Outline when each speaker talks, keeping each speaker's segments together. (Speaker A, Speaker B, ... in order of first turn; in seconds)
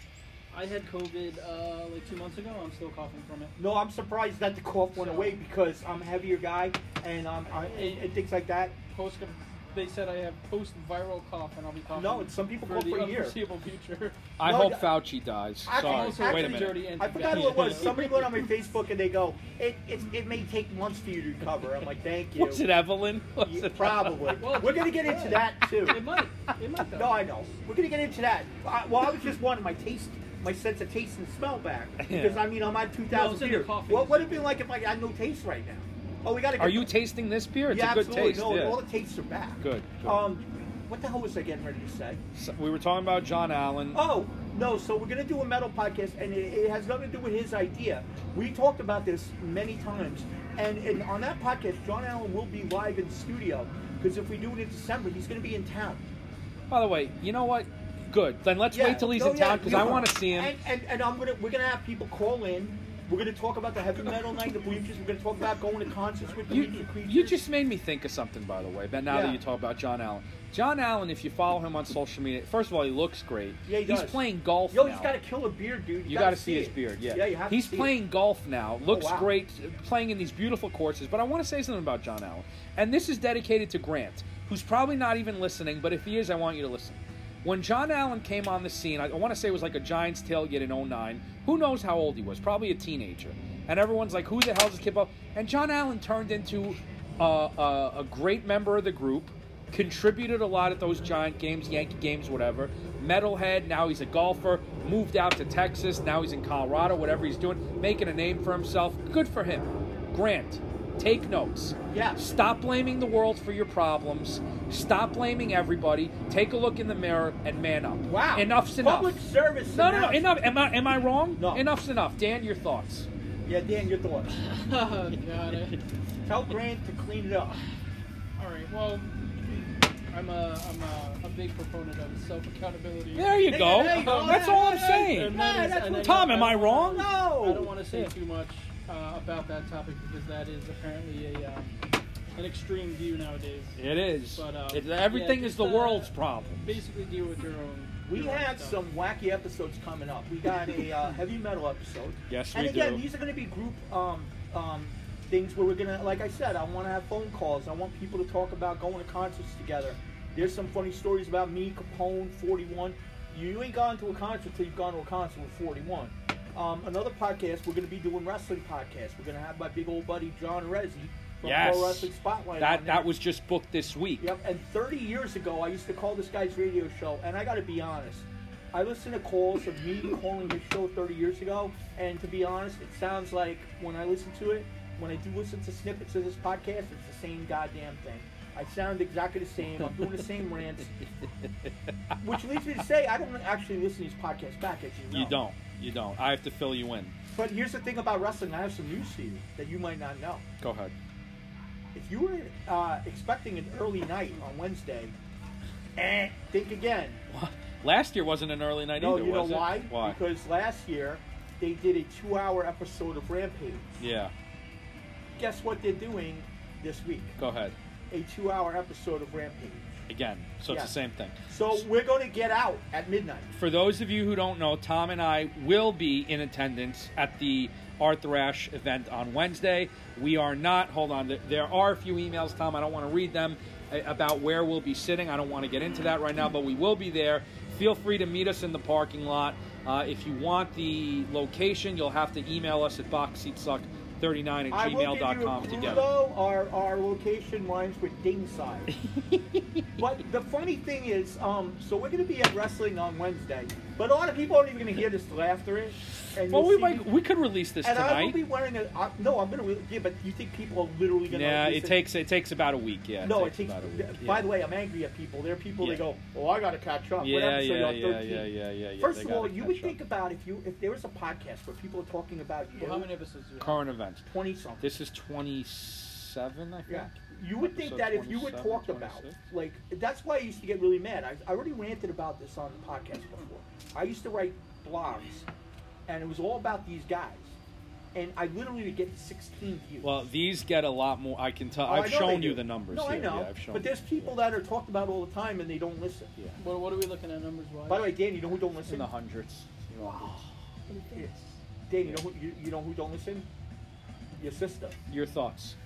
Speaker A: 0.5-3.5, 5.0-5.4, 7.5-8.1, 8.9-14.3, 15.7-18.4, 24.4-27.2, 33.1-34.6, 124.3-125.8, 128.4-129.2, 130.1-141.7, 142.3-143.8, 144.3-148.8, 272.8-273.9, 296.6-298.1, 300.9-301.4
Speaker B: 3.6-8.8, 11.9-13.4, 14.4-15.0, 15.7-22.7, 23.4-26.0, 26.9-37.0, 37.7-42.2, 43.9-56.0, 58.7-67.4, 69.1-69.4, 73.7-77.9, 78.9-79.3, 111.9-112.2, 118.1-120.5, 121.3-121.7, 123.5-124.3, 126.3-127.6, 133.5-136.3, 136.9-137.8, 148.1-173.1, 174.2-190.9, 192.2-195.4, 197.3-200.4, 201.9-205.1, 206.0-207.2, 209.0-213.9, 215.4-217.4, 218.1-220.0, 220.7-220.9, 221.5-223.5, 244.7-248.9, 250.0-257.1, 257.8-262.0, 263.2-273.1, 274.3-274.9, 276.9-285.5, 286.1-287.6, 288.1-290.3, 291.9-296.3, 297.9-299.1, 301.9-303.5, 304.4-305.0
Speaker C: 14.4-18.2, 22.4-24.4, 32.0-32.5, 36.6-38.8, 39.6-40.2, 42.4-44.0, 56.7-60.6, 66.5-75.1, 76.1-123.1, 133.2-137.1, 143.8-146.8, 152.3-153.1, 171.4-174.3, 195.1-197.2, 200.6-200.9, 207.3-210.2, 214.0-214.3, 217.4-217.8, 220.1-221.8, 223.6-246.1, 249.1-249.8, 256.4-258.4, 261.3-264.5, 265.8-266.1, 267.2-270.0, 273.6-274.3, 274.8-279.4, 290.0-294.4, 298.9-300.4, 305.1-305.8